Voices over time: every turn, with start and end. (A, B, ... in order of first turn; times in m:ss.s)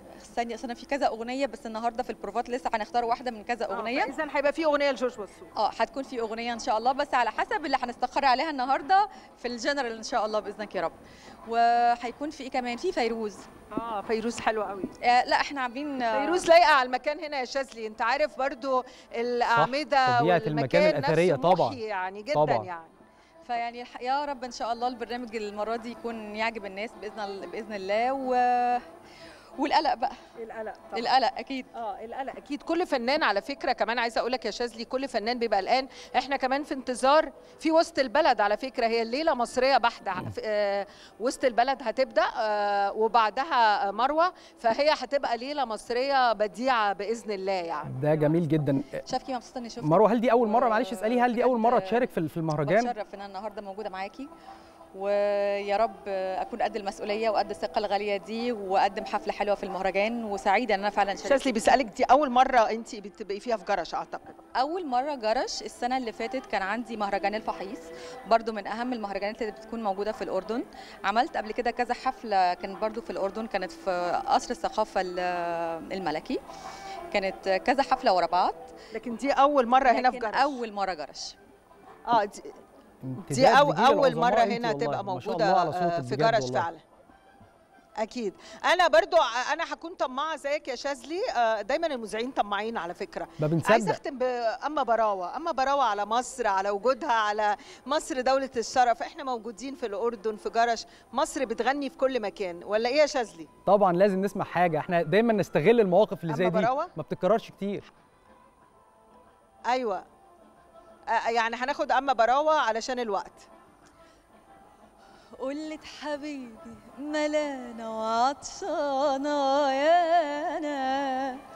0:00.2-0:04.1 A
0:03.7-0:05.5 B
0:05.5-0:13.5 A
0:13.7-0:14.9 B
0:15.0-0:16.5 A
0:16.1-0:22.9 B
0:19.5-0:21.8 C
0:22.3-0:22.7 C
0:23.4-0:28.8 A
0:29.6-0:30.2 A
0:30.4-0:31.1 B
0:30.9-0:31.7 A
0:31.7-0:48.0 B
0:47.8-0:49.0 C
0:49.0-0:52.1 A
0:49.8-0:52.9 C
0:52.6-0:54.3 A
0:54.9-1:01.6 A
1:01.2-1:04.4 B
1:04.6-1:16.4 A
1:17.1-1:18.7 A
1:18.9-1:20.6 B
1:19.9-1:21.4 A
1:22.1-1:22.6 B
1:23.0-1:26.7 C
1:23.2-1:26.8 B
1:28.0-1:43.5 B
1:33.4-1:34.0 C
1:43.7-1:47.9 C
1:46.3-1:46.9 B
1:49.7-1:50.0 B
1:51.1-1:53.5 B
1:55.4-2:01.4 A